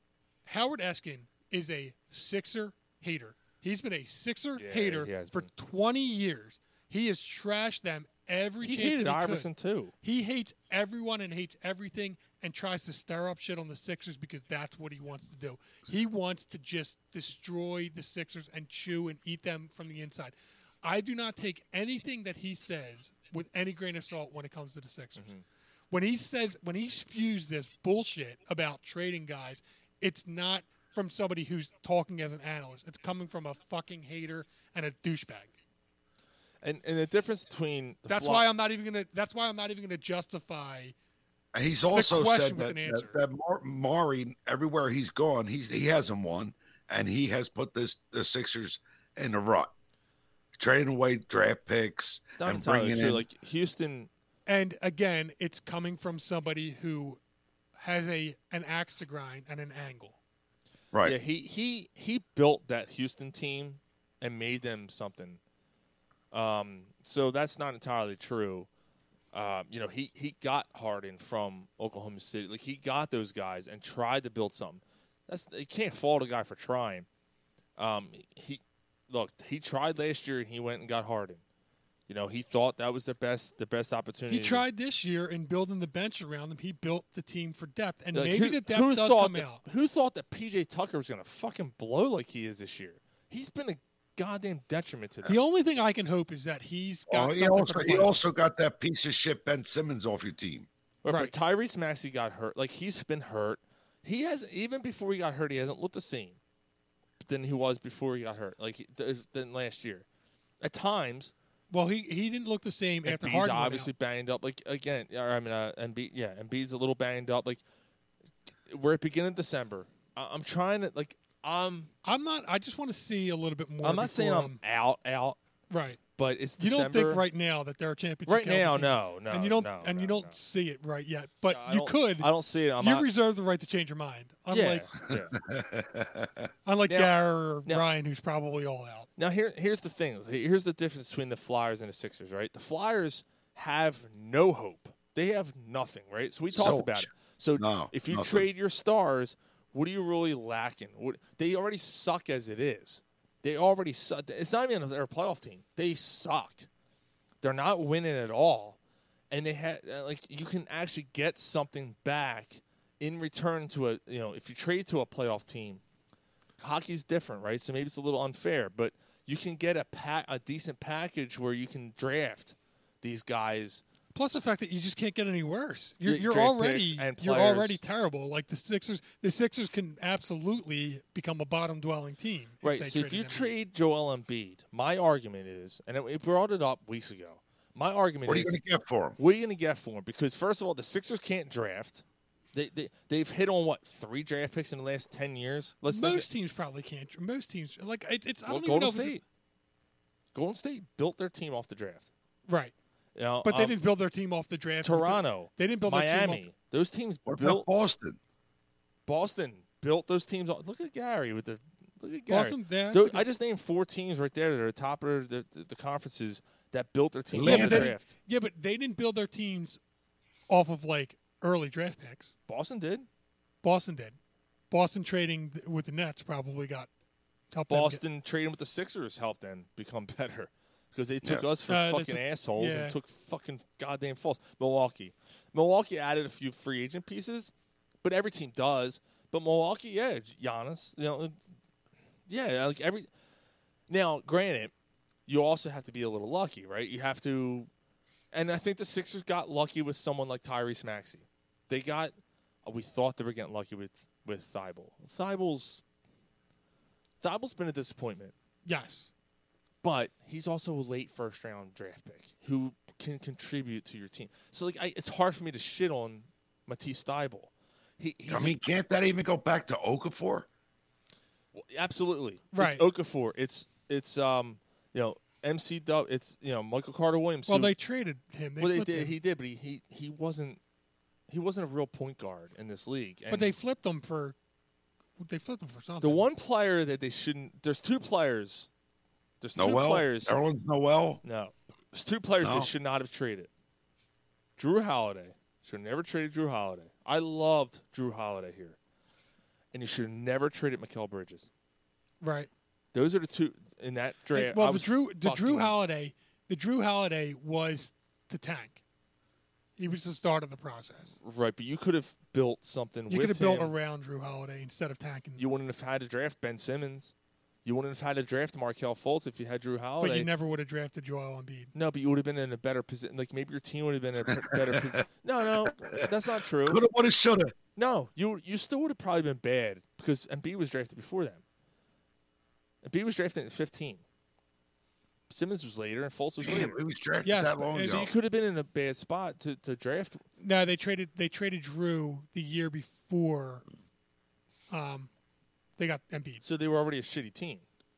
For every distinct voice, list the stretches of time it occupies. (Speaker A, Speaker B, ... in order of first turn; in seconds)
Speaker A: 0.5-9.5, 10.0-25.3, 25.9-35.5, 38.1-40.9, 41.9-43.2, 54.5-57.2, 57.8-60.2, 84.3-89.6, 95.2-98.2, 101.1-101.3, 111.7-113.9, 122.0-124.6, 125.7-126.0, 126.6-134.9, 136.7-139.1, 174.1-183.5, 195.9-199.2, 202.5-202.7, 203.4-206.4, 212.3-213.2, 217.4-219.8, 220.5-222.3, 223.6-224.2, 224.7-226.9, 227.5-228.0, 231.7-232.9, 258.6-259.1, 272.5-272.8, 277.5-279.1, 283.3-284.4, 285.2-286.3, 302.2-302.5, 304.3-308.8, 309.8-311.2, 313.1-315.4, 320.0-321.7, 337.2-338.0, 340.4-343.6, 344.7-345.1, 345.8-346.4
Speaker B: 4.5-5.5, 8.6-9.9, 25.2-25.4, 36.6-38.5, 52.4-54.1, 61.0-65.4, 66.3-68.7, 69.3-77.1, 77.8-81.4, 82.1-84.6, 88.1-95.4, 101.0-106.4, 107.2-110.0, 110.6-111.3, 113.0-117.6, 118.7-121.9, 123.8-125.4, 126.2-127.2, 128.2-130.4, 131.5-133.1, 134.5-135.4, 136.9-137.1, 139.2-156.7, 157.4-158.8, 159.3-165.8, 166.6-173.8, 176.0-177.8, 182.6-188.6, 189.2-196.2, 198.5-199.2, 200.3-202.1, 203.1-203.8, 204.8-207.7, 209.1-218.1, 222.5-223.1, 227.7-237.5, 238.0-241.4, 242.3-243.1, 243.9-244.7, 245.3-247.7, 248.3-252.1, 252.6-255.8, 257.2-258.3, 259.8-268.6, 271.5-277.7, 278.6-280.6, 281.3-283.5, 286.0-288.7, 289.4-290.4, 291.2-293.5, 294.6-298.8, 299.7-301.5, 302.9-305.8, 311.2-313.7, 315.4-317.1, 317.6-320.3, 321.7-326.8, 327.8-331.4, 332.8-334.0, 335.3-336.8, 337.8-340.2, 346.4-347.6
Speaker C: 41.5-49.7, 50.6-53.2, 97.1-100.7, 135.1-136.4, 146.5-148.4, 188.2-189.2, 207.3-208.2, 217.3-217.9, 268.3-270.5, 289.6-291.2, 292.4-292.7, 324.4-324.9, 325.6-326.0, 326.6-327.5, 336.4-338.1